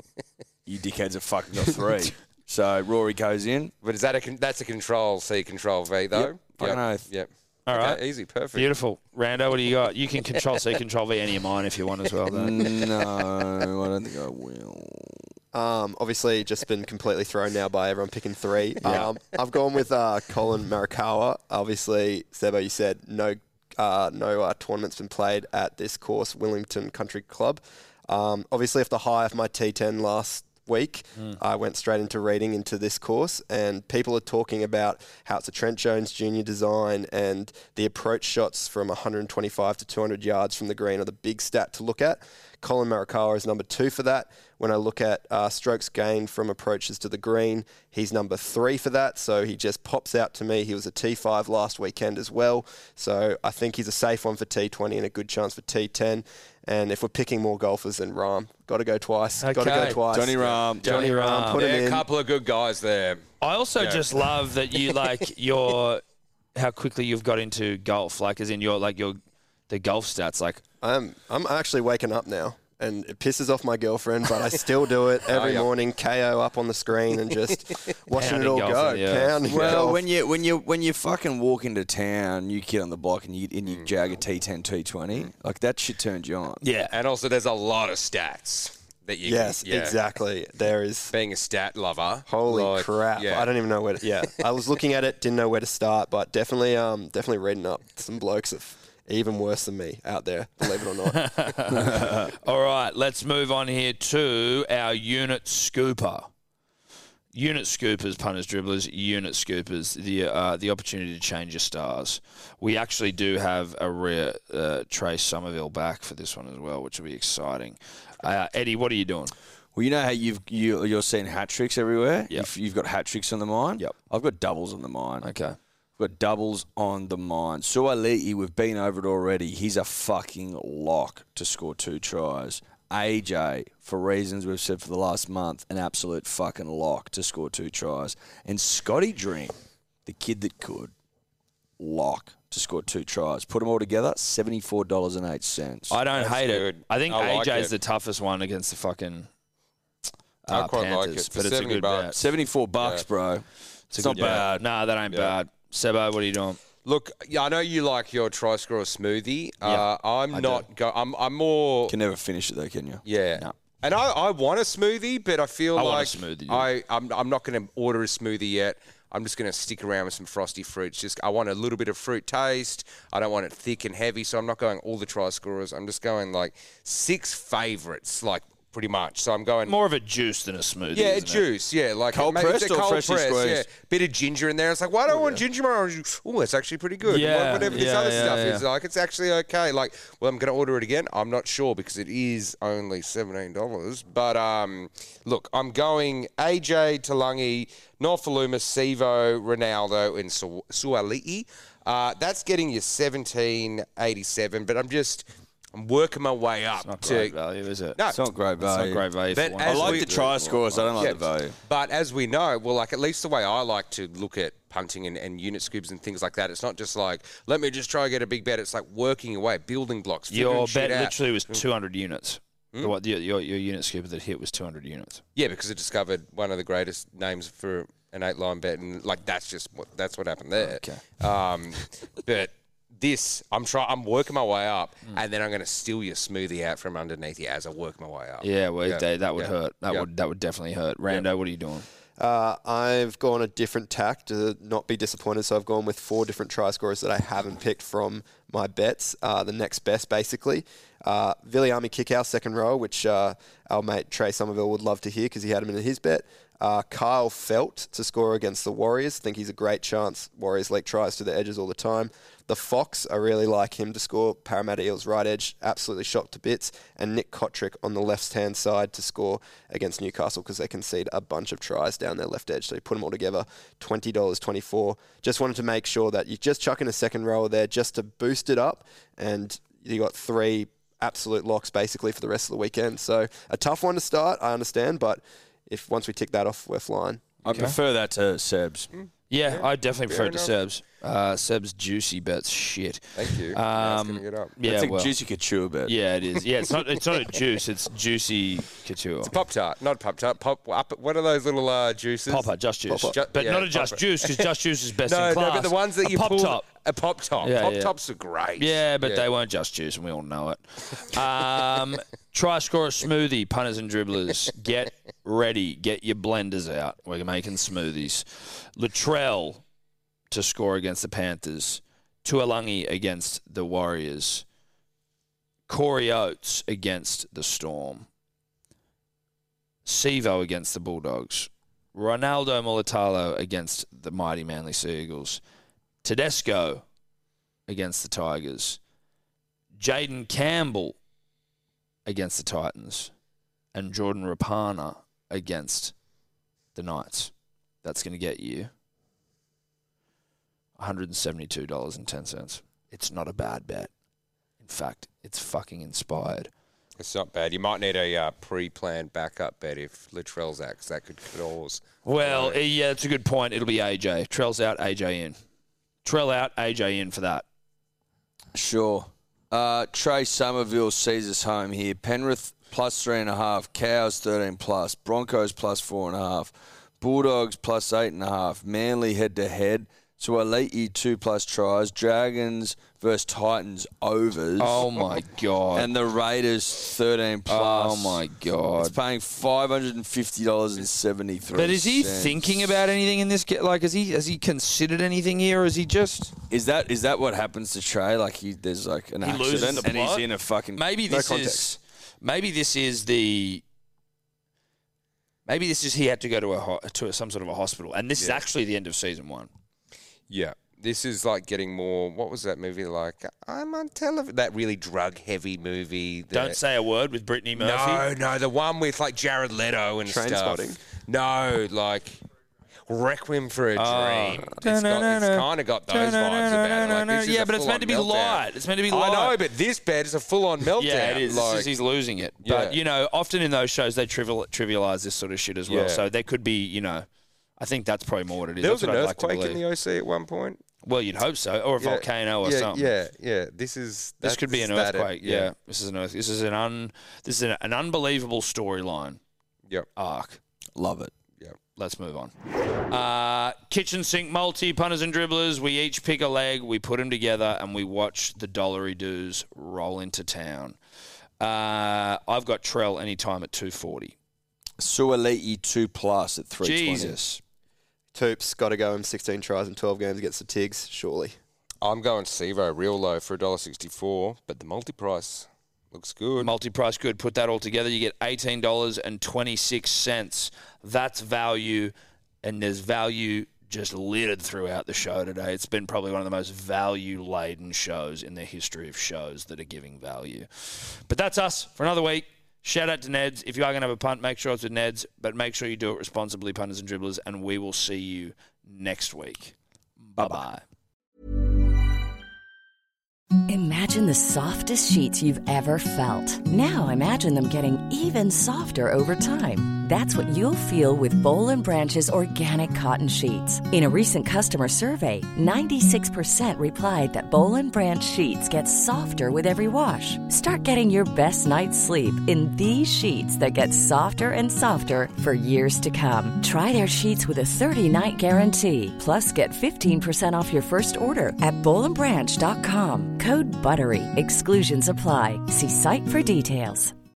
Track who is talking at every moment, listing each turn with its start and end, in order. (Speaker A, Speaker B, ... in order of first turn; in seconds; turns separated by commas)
Speaker A: 0.7-3.7, Speaker B: 3.8-8.7, Speaker A: 6.1-7.0, Speaker C: 7.7-8.0, Speaker C: 8.5-12.7, Speaker A: 12.3-15.3, Speaker D: 15.5-62.1, Speaker C: 18.8-19.1, Speaker C: 59.4-60.0, Speaker A: 60.1-61.1, Speaker B: 60.6-63.3, Speaker C: 60.8-61.6, Speaker C: 63.4-66.0, Speaker B: 63.8-64.3, Speaker C: 66.5-70.6, Speaker D: 70.8-80.0, Speaker B: 75.3-75.7, Speaker C: 78.1-79.6, Speaker A: 79.5-86.6, Speaker C: 86.6-86.9, Speaker B: 86.9-90.0, Speaker D: 89.2-91.1, Speaker B: 91.1-93.5, Speaker D: 92.3-101.5, Speaker C: 101.1-106.3, Speaker A: 101.7-102.3, Speaker C: 107.3-119.3, Speaker A: 119.8-125.3, Speaker C: 125.2-125.6, Speaker A: 126.0-140.9, Speaker A: 141.8-146.0, Speaker C: 145.9-149.3, Speaker B: 146.1-147.7, Speaker C: 150.4-152.2, Speaker B: 150.5-152.2, Speaker A: 152.2-153.4, Speaker B: 152.8-153.1, Speaker C: 153.9-156.6, Speaker A: 154.0-154.7, Speaker B: 156.8-161.9, Speaker C: 159.6-160.7, Speaker A: 161.9-163.0, Speaker B: 163.1-179.8, Speaker C: 165.8-166.7, Speaker C: 179.7-181.4, Speaker B: 180.9-207.4, Speaker A: 182.1-183.7, Speaker C: 187.1-188.7, Speaker C: 206.8-208.0, Speaker A: 208.1-209.1, Speaker C: 208.6-211.2, Speaker B: 209.3-210.1, Speaker A: 209.6-211.6, Speaker B: 211.0-221.6, Speaker C: 220.3-225.2, Speaker B: 225.4-240.1, Speaker C: 230.6-231.0, Speaker C: 238.4-241.9, Speaker D: 242.2-287.4, Speaker A: 287.4-288.9, Speaker C: 287.5-287.8, Speaker B: 288.9-290.5, Speaker C: 289.3-295.1, Speaker B: 293.2-294.6, Speaker A: 294.6-296.0, Speaker C: 295.9-299.3, Speaker B: 299.2-302.5, Speaker C: 302.3-306.7, Speaker D: 302.9-303.1, Speaker B: 303.1-304.4, Speaker B: 305.1-309.2, Speaker C: 307.4-307.9, Speaker C: 308.6-319.6, Speaker C: 320.3-324.4, Speaker C: 325.7-328.1, Speaker C: 329.9-335.4, Speaker C: 336.0-336.9, Speaker C: 337.7-338.8, Speaker C: 339.8-341.0, Speaker C: 342.1-343.1, Speaker C: 343.7-345.9, Speaker C: 346.8-347.3, Speaker C: 347.8-348.7, Speaker C: 350.8-353.9, Speaker C: 354.6-356.5, Speaker B: 357.0-362.6, Speaker C: 362.1-365.4, Speaker C: 366.0-367.4, Speaker A: 368.5-385.2, Speaker C: 384.6-385.9, Speaker A: 385.8-388.2, Speaker C: 387.5-389.0, Speaker A: 388.8-392.7, Speaker C: 391.5-396.3, Speaker A: 396.5-400.8, Speaker C: 399.2-403.6, Speaker D: 401.1-401.7, Speaker C: 405.5-409.5, Speaker B: 410.3-416.6, Speaker C: 416.3-418.1, Speaker B: 417.6-422.2, Speaker D: 420.1-420.8, Speaker B: 422.9-431.7, Speaker C: 423.8-429.4, Speaker C: 430.8-437.1, Speaker B: 432.4-432.8, Speaker B: 435.7-436.0, Speaker C: 437.6-439.6, Speaker B: 438.6-440.6, Speaker C: 440.8-442.9, Speaker B: 441.8-445.5, Speaker C: 444.2-449.2, Speaker C: 450.0-450.4, Speaker A: 450.8-451.1, Speaker C: 451.8-452.3, Speaker C: 452.9-460.8, Speaker C: 461.4-464.1, Speaker A: 464.8-467.2, Speaker C: 466.6-467.4, Speaker D: 468.1-471.4, Speaker B: 471.8-476.5, Speaker C: 476.4-500.6, Speaker E: 503.5-536.9